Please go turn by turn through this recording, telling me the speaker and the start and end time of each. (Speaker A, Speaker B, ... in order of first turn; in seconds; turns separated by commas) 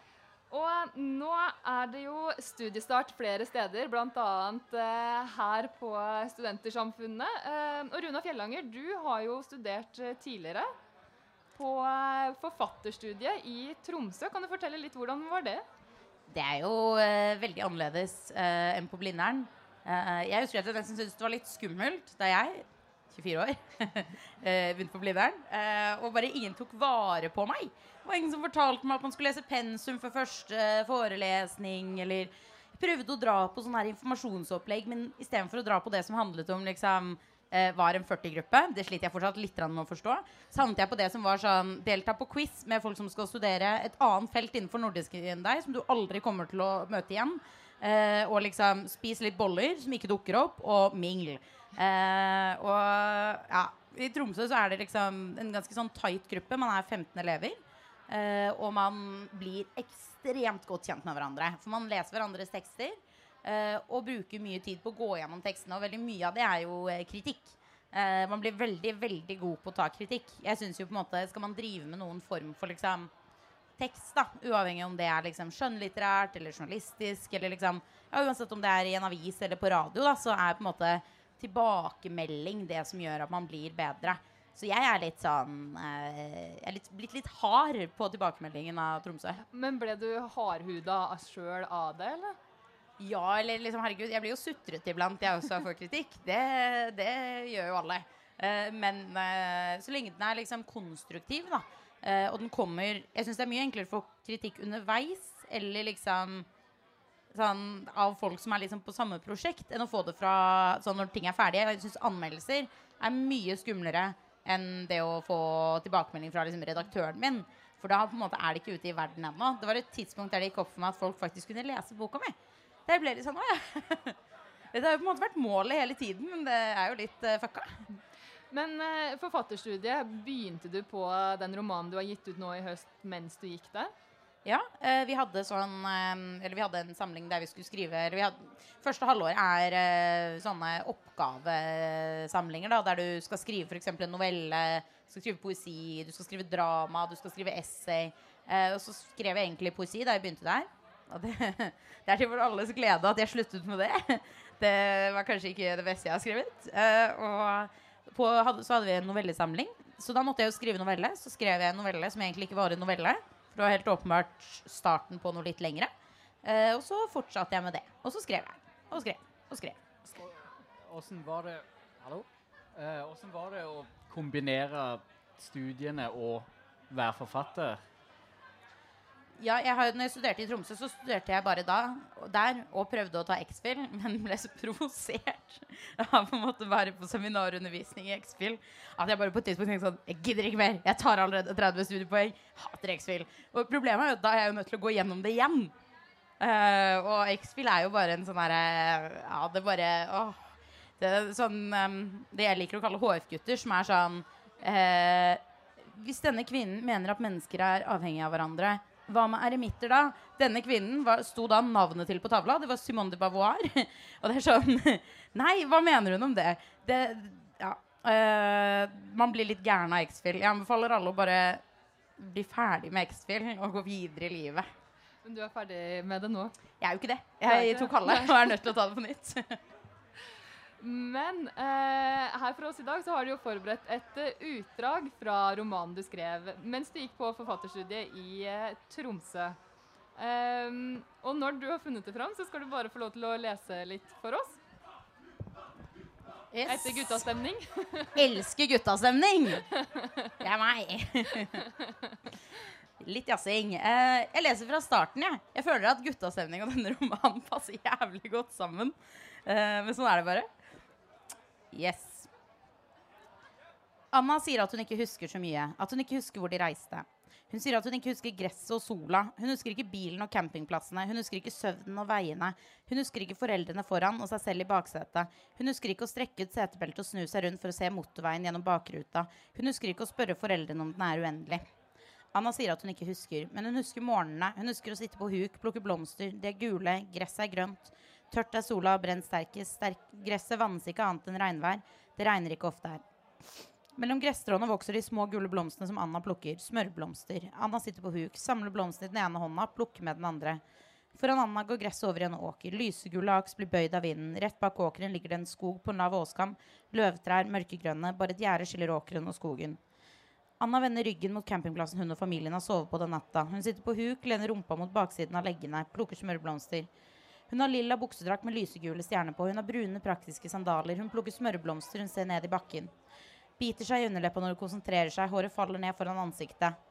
Speaker A: 0.5-10.7, Speaker A: 11.6-15.6, Speaker B: 16.3-73.1, Speaker B: 73.8-89.4, Speaker A: 89.5-92.4, Speaker B: 93.0-106.5, Speaker B: 107.3-122.3, Speaker B: 122.9-124.2, Speaker B: 124.7-127.8, Speaker A: 128.5-133.9, Speaker B: 134.4-165.9, Speaker B: 166.4-169.8, Speaker C: 170.1-177.8, Speaker B: 179.4-195.7, Speaker B: 196.4-221.6, Speaker B: 222.2-224.7, Speaker A: 225.2-226.5, Speaker B: 226.8-229.6, Speaker A: 227.4-228.4, Speaker A: 230.8-239.6, Speaker A: 240.2-244.6, Speaker B: 246.5-247.2, Speaker A: 246.7-248.2, Speaker B: 248.1-249.7, Speaker A: 249.8-250.3, Speaker B: 250.4-251.6, Speaker A: 251.6-251.9, Speaker B: 253.0-260.5, Speaker B: 261.7-262.3, Speaker B: 264.1-281.7, Speaker B: 282.3-293.0, Speaker B: 293.9-300.6, Speaker B: 301.1-309.8, Speaker B: 310.6-316.9, Speaker B: 317.5-322.9, Speaker B: 323.6-326.8